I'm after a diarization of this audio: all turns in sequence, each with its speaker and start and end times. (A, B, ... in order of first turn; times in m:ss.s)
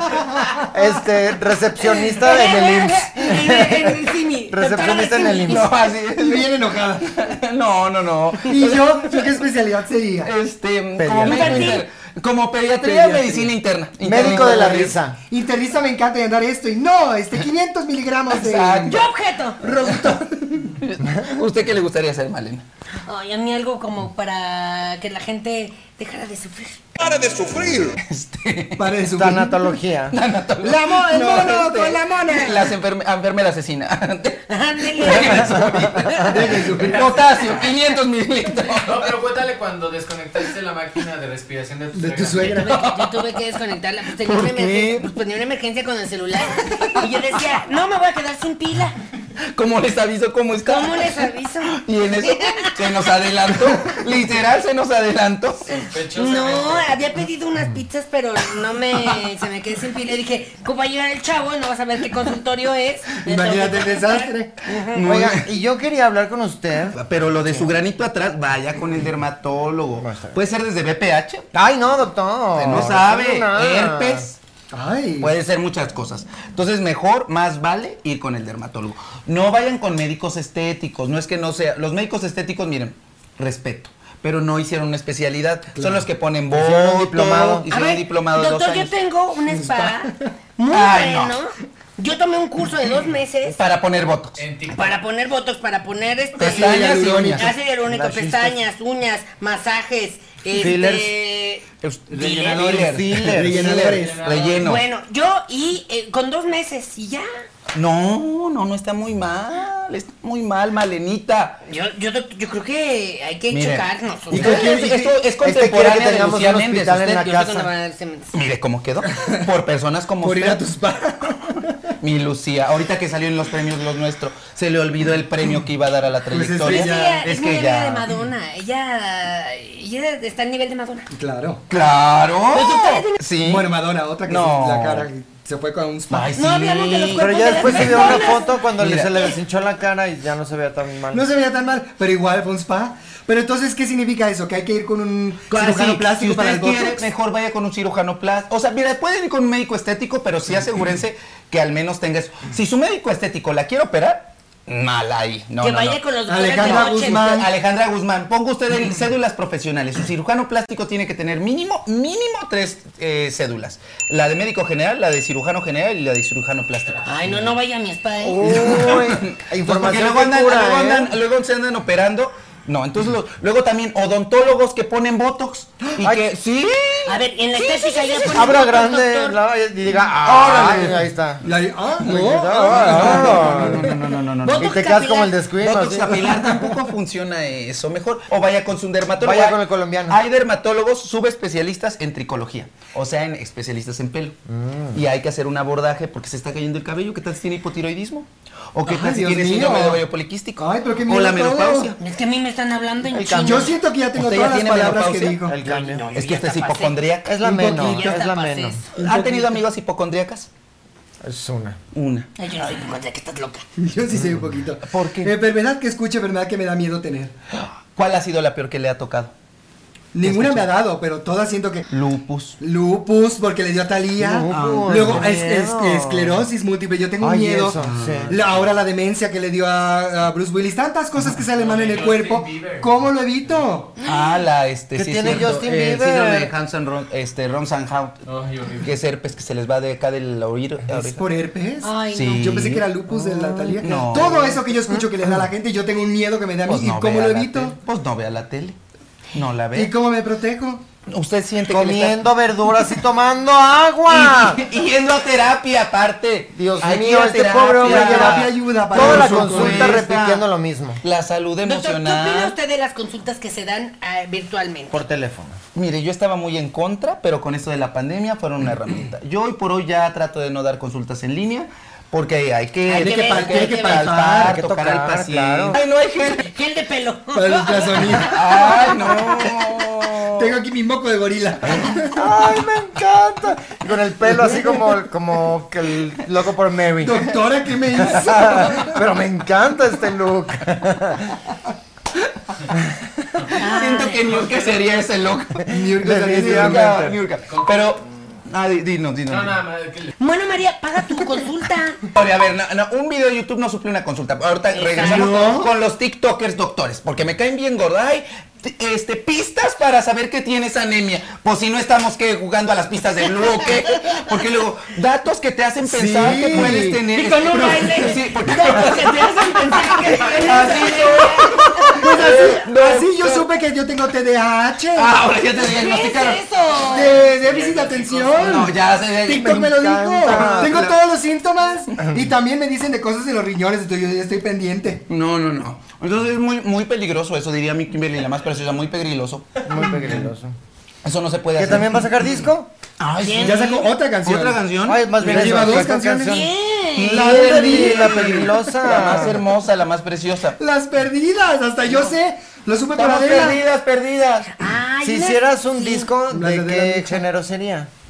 0:00.7-0:05.7 A
0:01.8-0:05.7 B
0:05.4-0:09.4 C
0:06.2-0:07.2 D
0:08.5-0:10.3 D
0:10.2-0:15.0 C
0:11.0-0:11.8 A
0:11.2-0:11.8 B
0:12.8-0:13.5 D
0:14.0-0:15.2 A
0:14.2-0:19.0 D
0:18.3-0:19.0 C
0:18.9-0:19.6 B
0:19.6-0:20.7 D
0:19.8-0:22.6 C
0:21.0-0:21.4 A
0:23.1-0:26.8 B
0:27.1-0:27.6 D
0:28.0-0:28.9 C
0:28.8-0:29.6 D
0:29.1-0:30.2 A
0:30.1-0:34.4 C
0:30.6-0:32.7 D
0:34.5-0:36.3 B
0:35.0-0:39.2 C
0:35.3-0:36.2 A
0:36.3-0:37.1 D
0:37.0-0:37.6 E
0:38.7-0:42.6 E
0:42.0-0:42.7 D
0:42.4-0:49.0 B
0:42.7-0:43.3 C
0:44.2-0:45.1 C
0:49.5-0:55.8 C
0:50.6-0:52.8 B
0:55.8-1:05.0 B
0:55.9-0:57.0 E
1:03.2-1:04.6 D
1:04.9-1:05.5 C
1:05.0-1:07.7 A
1:06.9-1:11.5 C
1:10.0-1:10.4 A
1:11.5-1:14.3 A
1:12.6-1:14.4 C
1:14.7-1:15.3 D
1:15.2-1:28.9 C
1:25.8-1:26.0 D
1:26.5-1:27.7 A
1:27.7-1:33.6 B
1:29.5-1:30.3 D
1:30.7-1:31.4 C
1:33.5-1:34.4 C
1:34.4-1:35.0 E
1:34.7-1:41.6 B
1:36.4-1:37.5 C
1:36.4-1:37.5 D
1:37.8-1:38.6 A
1:40.5-1:41.1 A
1:41.8-1:44.8 C
1:42.1-1:44.3 D
1:42.2-1:42.6 B
1:42.6-1:43.8 A
1:43.9-1:44.7 E
1:44.6-1:47.2 B
1:47.7-1:51.6 C
1:51.7-1:54.7 B
1:53.5-1:57.7 C
1:54.3-1:55.1 D
1:54.4-1:57.6 A
1:57.3-1:58.3 B
1:58.3-2:00.6 C
2:00.2-2:01.8 D
2:02.0-2:08.1 C
2:06.3-2:07.2 D
2:06.6-2:11.1 B
2:11.1-2:11.6 D
2:11.7-2:13.7 C
2:12.5-2:13.2 B
2:13.4-2:16.3 D
2:14.3-2:15.1 C
2:16.1-2:19.3 C
2:16.4-2:18.6 B
2:17.2-2:21.3 A
2:21.1-2:27.0 D
2:25.5-2:36.0 C
2:35.6-2:37.2 B
2:36.3-2:37.5 D
2:36.6-2:47.3 C
2:46.8-2:47.1 E
2:47.0-2:48.7 B
2:48.2-2:51.2 A
2:48.4-2:58.4 C
2:56.0-2:56.2 A
2:57.1-2:59.4 B
2:58.3-3:01.4 A
3:00.2-3:01.0 C
3:01.4-3:03.9 D
3:02.0-3:03.9 A
3:02.6-3:04.7 C
3:04.4-3:05.3 B
3:04.6-3:06.3 A
3:05.6-3:14.4 C
3:09.2-3:10.2 A
3:14.5-3:15.0 A
3:14.9-3:22.0 C
3:18.8-3:20.0 D
3:20.6-3:21.9 D
3:22.0-3:23.7 B
3:23.1-3:23.8 A
3:23.4-3:25.6 D
3:24.2-3:25.5 C
3:25.5-3:26.1 A
3:25.6-3:28.9 B
3:26.0-3:28.1 C
3:27.2-3:28.8 A
3:29.0-3:29.6 D
3:29.0-3:30.5 C
3:31.2-3:31.8 A
3:31.9-3:32.3 C
3:32.4-3:33.6 B
3:33.8-3:37.3 D
3:34.8-3:35.3 C
3:38.0-3:39.3 C
3:40.1-3:41.9 D
3:40.2-3:40.7 C
3:41.9-3:42.6 C
3:42.6-3:47.8 D
3:44.2-3:46.4 A
3:44.5-3:45.3 C
3:47.2-3:48.4 A
3:47.8-3:48.6 C
3:48.3-3:53.9 D
3:51.5-3:53.9 E
3:54.0-3:54.3 B
3:54.0-3:58.2 C
3:55.0-3:56.5 A
3:58.3-3:59.0 E
3:58.8-4:01.2 C
4:01.1-4:07.8 D
4:01.8-4:02.7 B
4:02.1-4:02.9 C
4:03.2-4:04.0 A
4:03.8-4:04.6 C
4:06.7-4:08.8 C
4:09.3-4:09.9 C
4:09.8-4:10.8 D
4:11.1-4:12.2 C
4:11.7-4:14.6 A
4:14.1-4:20.4 C
4:16.6-4:21.0 A
4:17.8-4:20.0 D
4:21.0-4:22.6 C
4:21.6-4:25.0 B
4:24.9-4:25.6 A
4:25.8-4:36.5 C
4:32.9-4:34.1 B
4:32.9-4:34.6 D
4:34.4-4:35.8 A
4:36.4-4:38.9 B
4:37.3-4:38.8 D
4:38.1-4:40.6 C
4:40.2-4:42.2 D
4:42.1-4:47.3 A
4:47.0-4:49.0 D
4:48.0-4:51.3 A
4:52.7-4:53.2 A
4:53.5-4:55.7 C
4:53.6-4:54.3 B
4:54.2-4:54.9 E
4:55.7-4:57.1 D
4:55.8-4:57.2 A
4:56.4-4:59.6 C
4:57.5-4:57.9 E
4:59.3-5:00.1 E
5:00.2-5:02.0 B
5:02.1-5:23.5 C
5:04.7-5:05.3 B
5:05.0-5:05.7 D
5:15.9-5:18.2 D
5:16.1-5:17.0 A
5:17.2-5:22.0 B
5:22.0-5:25.1 D
5:24.9-5:26.4 C
5:25.6-5:27.2 B
5:26.8-5:35.0 D
5:27.2-5:28.5 E
5:28.4-5:31.0 C
5:29.5-5:30.8 A
5:32.0-5:32.3 A
5:35.1-5:39.6 C
5:39.7-5:40.5 A
5:41.0-5:42.1 C
5:41.6-5:42.7 A
5:43.0-5:45.9 C
5:43.2-5:43.9 B
5:43.4-5:44.6 D
5:44.8-5:46.5 A
5:45.2-5:46.4 D
5:46.2-5:47.3 B
5:46.9-5:50.6 C
5:47.1-5:49.4 A
5:47.2-5:48.5 D
5:49.0-5:49.3 D
5:50.6-5:53.6 D
5:53.0-5:54.5 C
5:54.6-5:56.1 B
5:55.0-5:57.9 A
5:56.3-5:57.2 D